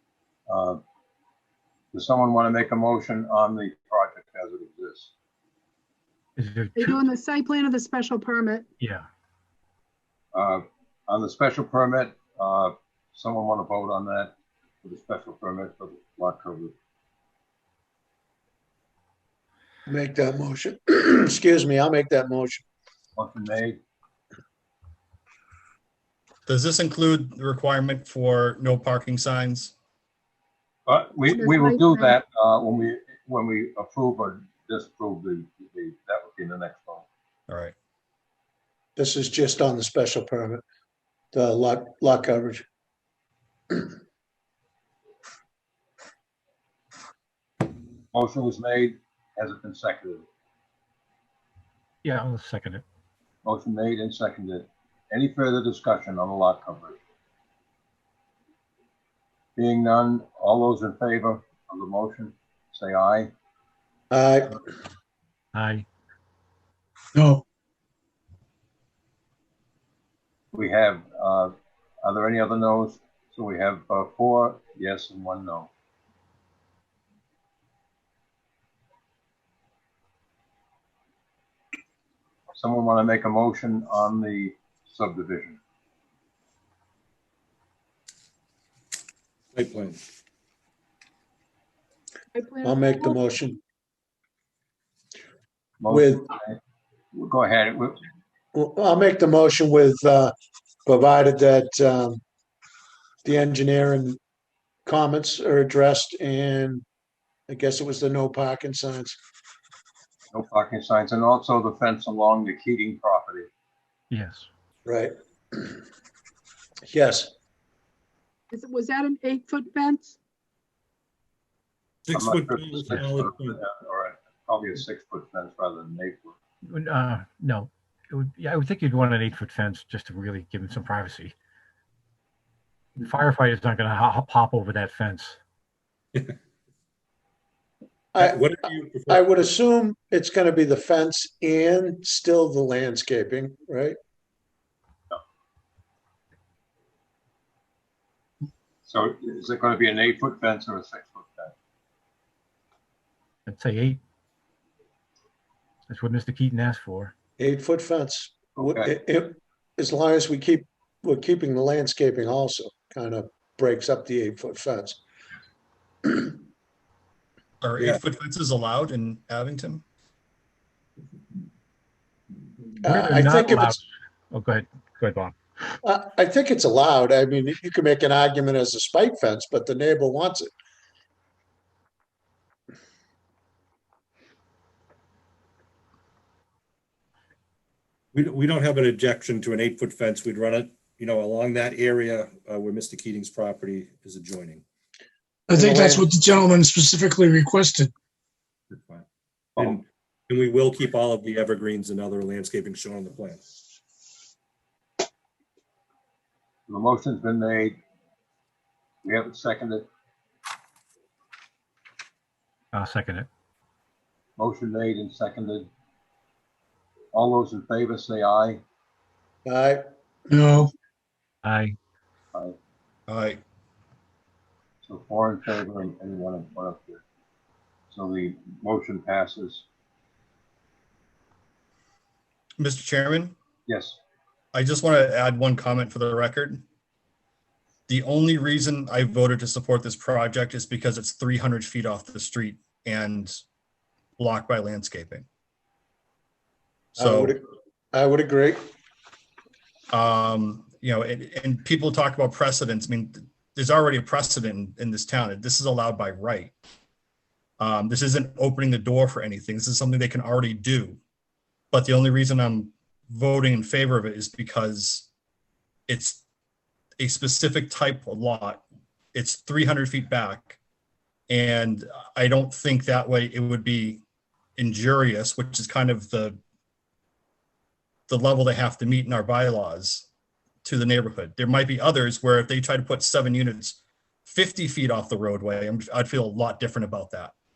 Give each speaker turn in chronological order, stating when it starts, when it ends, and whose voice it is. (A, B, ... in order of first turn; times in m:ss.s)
0:00.5-0:00.8 A
0:01.9-0:05.1 A
0:06.4-0:07.0 B
0:06.7-0:08.7 C
0:08.8-0:09.1 B
0:10.3-0:16.7 A
0:19.8-0:22.6 D
0:23.2-0:23.8 A
0:26.5-0:29.7 E
0:30.9-0:37.1 A
0:31.3-0:32.2 C
0:37.5-0:37.7 E
0:39.0-0:40.6 D
0:41.3-0:42.6 D
0:48.1-0:50.2 A
0:52.0-0:52.8 B
0:53.4-0:57.0 A
0:59.6-1:03.3 A
1:04.1-1:04.5 D
1:05.5-1:05.8 B
1:07.1-1:07.4 F
1:10.5-1:15.7 A
1:22.6-1:25.6 A
1:29.5-1:30.0 G
1:32.3-1:33.3 C
1:32.6-1:33.6 D
1:35.8-1:36.6 A
1:35.9-1:36.3 D
1:37.1-1:38.0 A
1:38.5-1:40.3 D
1:40.8-1:42.2 D
1:43.2-1:44.2 D
1:44.8-1:46.8 D
1:47.5-1:49.2 D
1:50.3-1:53.5 A
1:54.1-1:54.5 B
1:54.8-1:55.8 D
1:56.8-1:57.3 D
1:58.5-2:00.2 C
2:02.1-2:03.5 G
2:02.1-2:06.4 A
2:06.6-2:11.3 B
2:13.0-2:15.4 B
2:18.1-2:24.0 D
2:18.3-2:19.2 G
2:28.8-2:31.5 A
2:33.4-2:34.0 B
2:35.9-2:37.1 B
2:37.4-2:45.0 D
2:38.6-2:38.9 A
2:46.0-2:46.4 D
2:47.6-2:49.8 E
2:52.8-2:53.8 D
2:52.9-2:55.7 B
2:55.8-3:00.5 D
3:08.1-3:14.6 G
3:15.5-3:17.9 F
3:15.5-3:16.0 D
3:18.7-3:19.0 G
3:19.6-3:23.4 G
3:26.7-3:27.8 A
3:29.0-3:29.8 A
3:32.7-3:33.3 B
3:34.4-3:35.7 A
3:37.1-3:38.6 A
3:39.4-3:39.8 D
3:40.3-3:40.7 F
3:41.4-3:41.8 B
3:43.1-3:43.4 E
3:44.8-3:47.0 A
3:47.9-3:49.7 A
3:52.6-3:53.3 E
3:53.7-3:54.0 A
3:54.5-3:56.6 E
3:57.9-4:03.4 E
4:04.2-4:05.2 E
4:07.0-4:08.6 D
4:07.0-4:07.3 E
4:09.9-4:16.5 E
4:17.6-4:21.0 E
4:21.7-4:25.1 E
4:25.9-4:26.2 E
4:27.0-4:28.6 E
4:29.1-4:30.6 E
4:31.3-4:34.0 E
4:34.6-4:36.4 E
4:38.1-4:40.1 E
4:40.6-4:47.3 E